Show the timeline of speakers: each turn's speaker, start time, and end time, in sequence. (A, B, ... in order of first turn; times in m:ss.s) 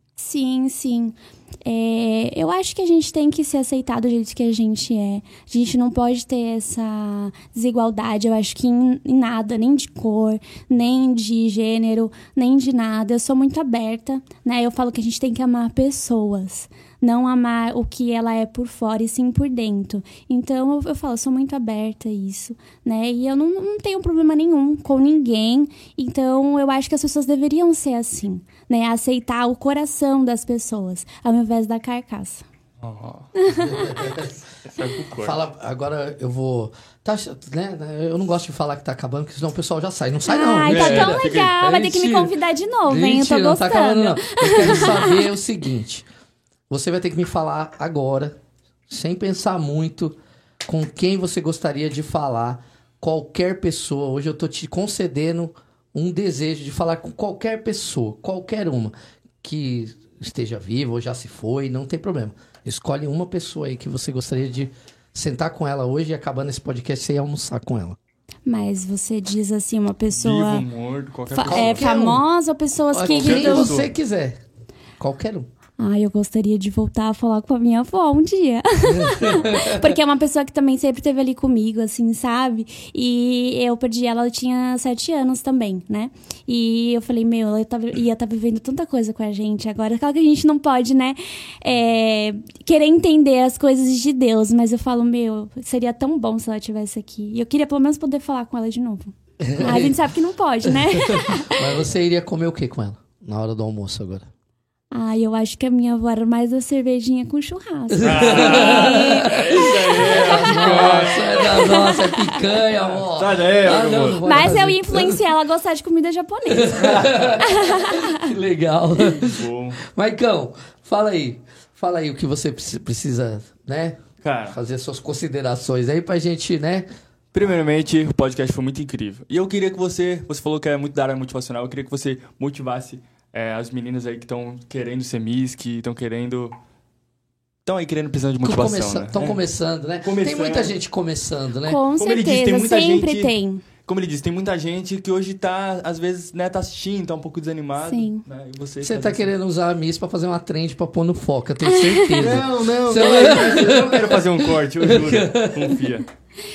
0:00.2-0:32.4 A
0:32.8-0:33.3 B
0:33.4-0:33.9 A
0:33.5-0:34.4 C
0:34.7-0:35.4 B
0:35.2-0:42.3 C
0:40.3-0:45.3 A
0:40.7-0:41.5 B
0:42.8-0:46.1 C
0:46.7-0:48.4 C
0:48.9-1:08.0 C
1:08.5-1:10.6 A
1:10.1-1:11.9 B
1:11.3-1:13.7 A
1:11.4-1:12.3 C
1:12.9-1:14.4 C
1:13.0-1:13.9 B
1:15.0-1:15.5 C
1:15.8-1:41.8 A
1:18.9-1:20.0 C
1:39.4-1:40.1 C
1:40.7-1:44.3 C
1:44.9-1:52.4 A
1:47.9-1:55.3 C
1:48.0-1:51.7 B
1:52.7-1:54.2 B
1:54.2-1:58.3 A
1:56.5-2:06.9 C
1:56.8-1:57.4 B
1:59.2-1:59.8 B
2:04.2-2:04.6 B
2:07.3-2:16.6 B
2:17.7-2:19.4 B
2:18.4-2:21.8 C
2:20.0-2:20.8 B
2:21.6-2:23.6 A
2:22.0-2:29.3 B
2:27.8-2:28.2 A
2:28.8-2:35.8 C
2:31.7-2:32.4 A
2:32.1-2:36.0 B